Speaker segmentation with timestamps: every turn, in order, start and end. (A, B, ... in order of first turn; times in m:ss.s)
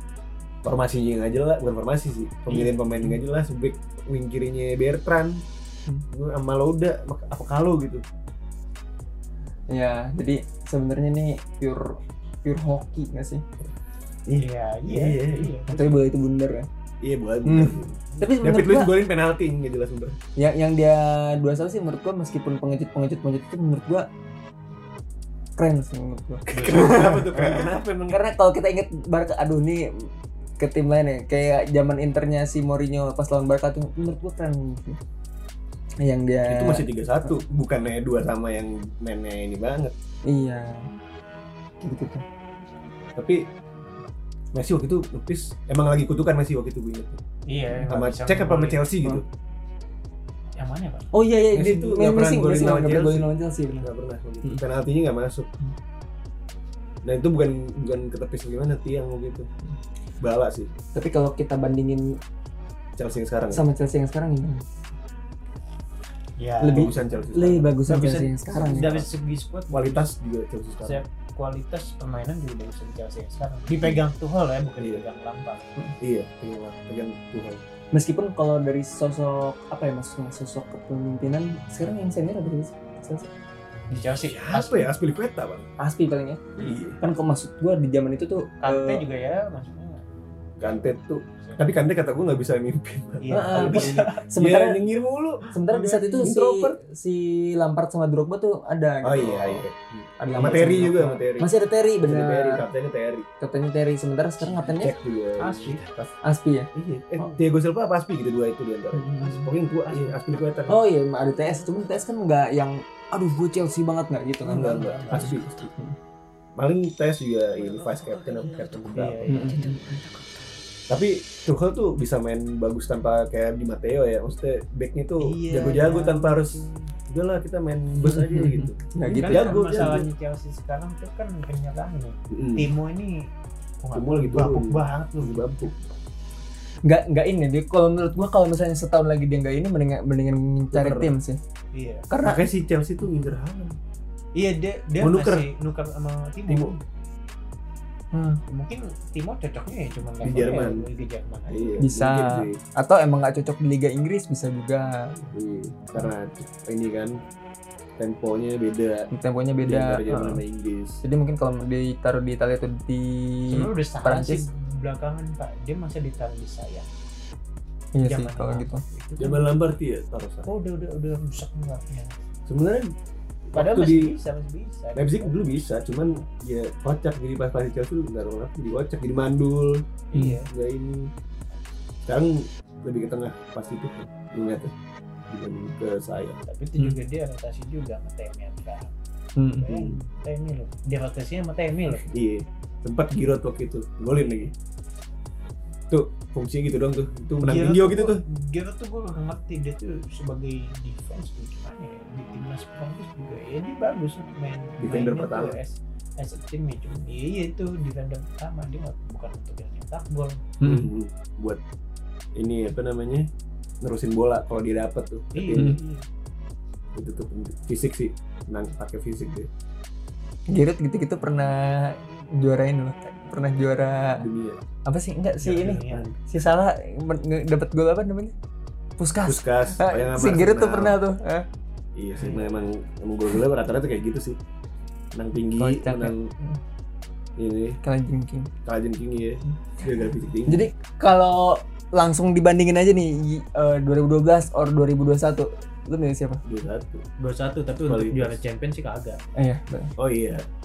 0:00.6-0:05.4 A
0:02.5-0:02.8 B
0:06.1-0:08.0 A
0:09.7-0:13.4 C
0:14.3-0:15.5 A
0:14.4-0:16.0 B
0:15.7-0:16.7 C
0:17.0-0:20.2 A
0:17.4-0:19.0 C
0:20.4-0:24.1 C
0:25.6-0:35.0 C
0:26.5-0:28.2 A
0:26.5-0:26.9 B
0:36.0-0:37.3 C
0:36.4-0:39.9 A
0:40.2-0:40.9 C
0:41.8-0:42.2 C
0:43.1-0:43.4 A
0:44.5-0:47.2 A
0:47.4-0:48.9 B
0:47.7-0:49.2 A
0:50.6-0:51.1 B
0:51.1-0:53.8 C
0:51.5-0:55.5 A
0:57.0-0:59.5 A
1:00.2-1:00.7 A
1:00.9-1:02.2 C
1:03.0-1:03.6 A
1:03.5-1:04.6 C
1:06.4-1:06.9 B
1:06.6-1:09.1 C
1:06.7-1:07.8 A
1:07.8-1:10.1 B
1:09.7-1:11.0 A
1:10.8-1:15.7 B
1:14.8-1:15.1 A
1:16.0-1:17.6 A
1:17.9-1:23.3 C
1:23.9-1:24.9 B
1:24.2-1:25.7 A
1:25.8-1:29.0 C
1:26.6-1:27.0 A
1:28.6-1:30.0 B
1:30.6-1:31.6 B
1:30.6-1:36.8 A
1:33.2-1:34.2 B
1:33.3-1:34.8 C
1:35.5-1:39.6 C
1:39.0-1:43.3 A
1:40.2-1:42.7 C
1:40.3-1:40.8 B
1:43.4-1:44.9 C
1:44.7-1:46.1 A
1:45.4-1:45.9 B
1:46.2-1:46.7 C
1:46.7-1:50.8 A
1:49.0-1:49.4 C
1:49.6-1:50.4 B
1:50.7-1:55.9 C
1:54.4-1:55.7 A
1:54.5-1:55.3 B
1:56.5-1:59.4 A
1:58.9-1:59.6 B
1:59.3-1:59.8 C
2:00.9-2:10.1 A
2:05.2-2:06.9 B
2:08.0-2:10.0 C
2:09.0-2:13.3 B
2:12.3-2:12.7 A
2:13.8-2:15.7 B
2:13.9-2:15.8 A
2:16.8-2:21.4 C
2:20.7-2:21.1 A
2:21.7-2:22.1 B
2:22.1-2:22.4 C
2:22.2-2:23.8 A
2:24.3-2:26.8 B
2:25.0-2:25.5 A
2:26.5-2:26.8 A
2:28.1-2:28.4 C
2:28.5-2:31.8 B
2:30.2-2:30.9 A
2:31.5-2:32.6 A
2:31.8-2:35.1 C
2:35.3-2:37.2 A
2:38.0-2:41.0 A
2:39.1-2:40.4 C
2:41.0-2:44.5 C
2:43.5-2:46.9 B
2:47.9-2:48.8 C
2:48.0-2:49.6 B
2:49.2-2:50.5 A
2:50.4-2:52.2 B
2:52.5-2:52.9 A
2:53.5-2:54.2 A
2:53.5-2:55.7 B
2:54.9-2:59.8 A
3:00.1-3:00.5 B
3:00.1-3:00.4 C
3:00.5-3:01.1 A
3:02.0-3:04.7 A
3:05.3-3:06.4 A
3:06.4-3:08.9 B
3:09.4-3:09.7 C
3:09.6-3:12.1 B
3:09.6-3:10.0 A
3:12.0-3:14.5 A
3:15.9-3:18.2 A
3:17.4-3:30.6 B
3:24.8-3:25.6 A
3:30.6-3:30.9 C
3:30.6-3:31.6 A
3:32.3-3:33.3 A
3:33.8-3:35.8 A
3:35.3-3:36.0 B
3:36.9-3:39.5 A
3:40.5-3:44.2 C
3:44.1-3:44.6 A
3:44.8-3:48.3 C
3:45.4-3:46.2 B
3:45.7-3:46.0 A
3:49.0-3:51.4 C
3:49.2-3:51.0 A
3:51.9-3:54.4 A
3:52.1-3:52.7 B
3:55.1-3:56.3 A
3:55.6-3:56.6 C
3:57.4-3:57.8 A
3:57.8-3:58.5 C
3:58.6-4:00.7 A
4:00.5-4:06.4 C
4:06.4-4:07.0 A
4:07.2-4:09.2 B
4:07.8-4:08.4 A
4:09.4-4:09.9 C
4:10.0-4:10.4 A